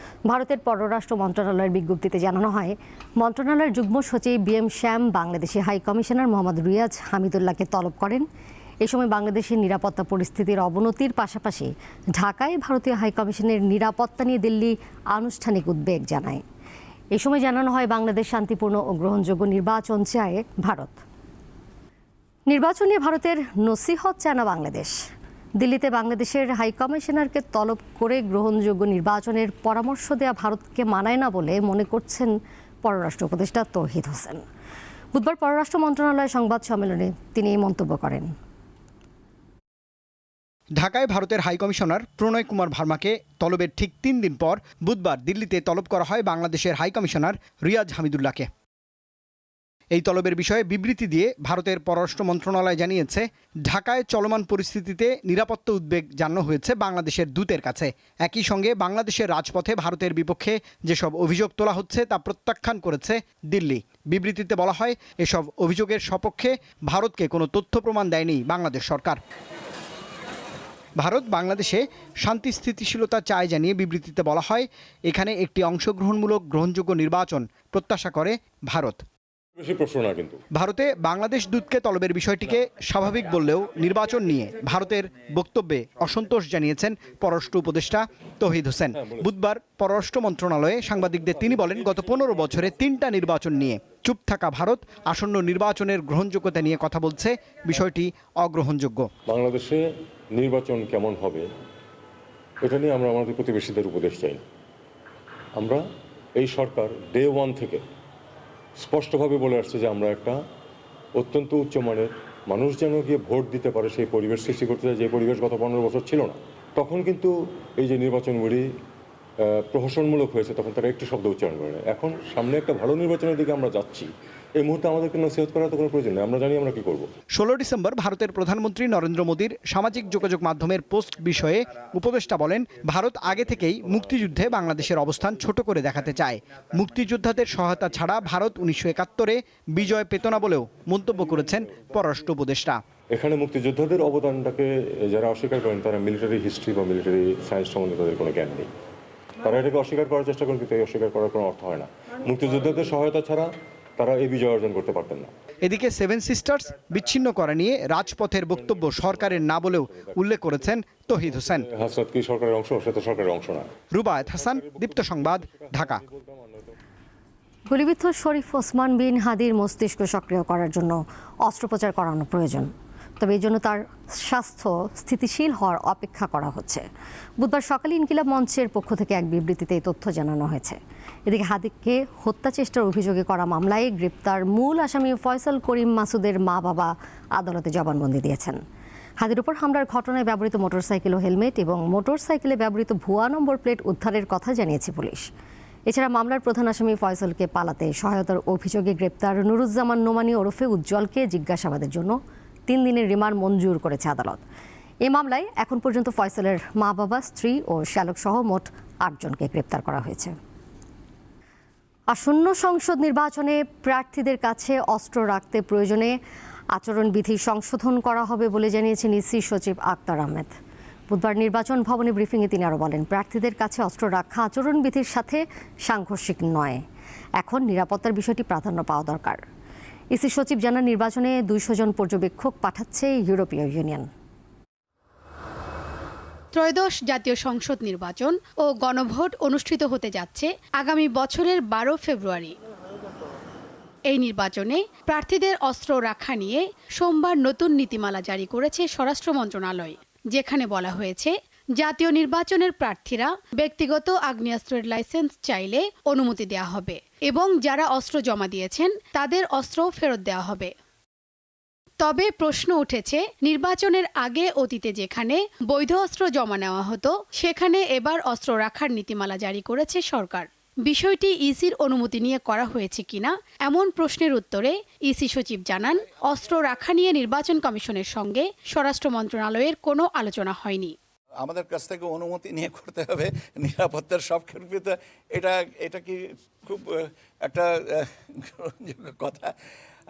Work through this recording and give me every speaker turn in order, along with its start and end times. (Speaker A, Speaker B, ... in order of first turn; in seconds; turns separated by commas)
Speaker A: 0.3-8.2, Speaker A: 8.8-16.4, Speaker A: 17.1-21.0, Speaker A: 22.5-24.9, Speaker A: 25.6-32.3, Speaker A: 32.8-34.4, Speaker A: 35.1-38.3, Speaker B: 40.8-48.5, Speaker B: 49.9-69.2, Speaker B: 71.0-79.0, Speaker C: 79.6-80.4, Speaker B: 80.5-99.1, Speaker C: 89.0-89.2, Speaker C: 99.3-101.5, Speaker C: 102.6-104.4, Speaker C: 105.5-105.8, Speaker C: 106.3-107.8, Speaker C: 108.8-110.4, Speaker C: 111.2-118.6, Speaker C: 119.4-127.1, Speaker B: 127.3-142.8, Speaker C: 143.1-148.7, Speaker C: 149.4-155.3, Speaker B: 155.6-161.7, Speaker C: 158.6-166.7, Speaker B: 163.9-166.0, Speaker A: 167.7-176.8, Speaker A: 177.4-188.6, Speaker A: 189.2-195.2, Speaker A: 195.9-202.2, Speaker A: 202.7-204.4, Speaker A: 205.1-210.3, Speaker A: 212.1-216.1, Speaker A: 216.7-220.5, Speaker A: 221.1-226.8, Speaker A: 227.4-229.4, Speaker A: 230.1-234.1, Speaker D: 236.5-242.5, Speaker D: 244.1-260.7, Speaker D: 262.0-280.9, Speaker E: 281.4-289.5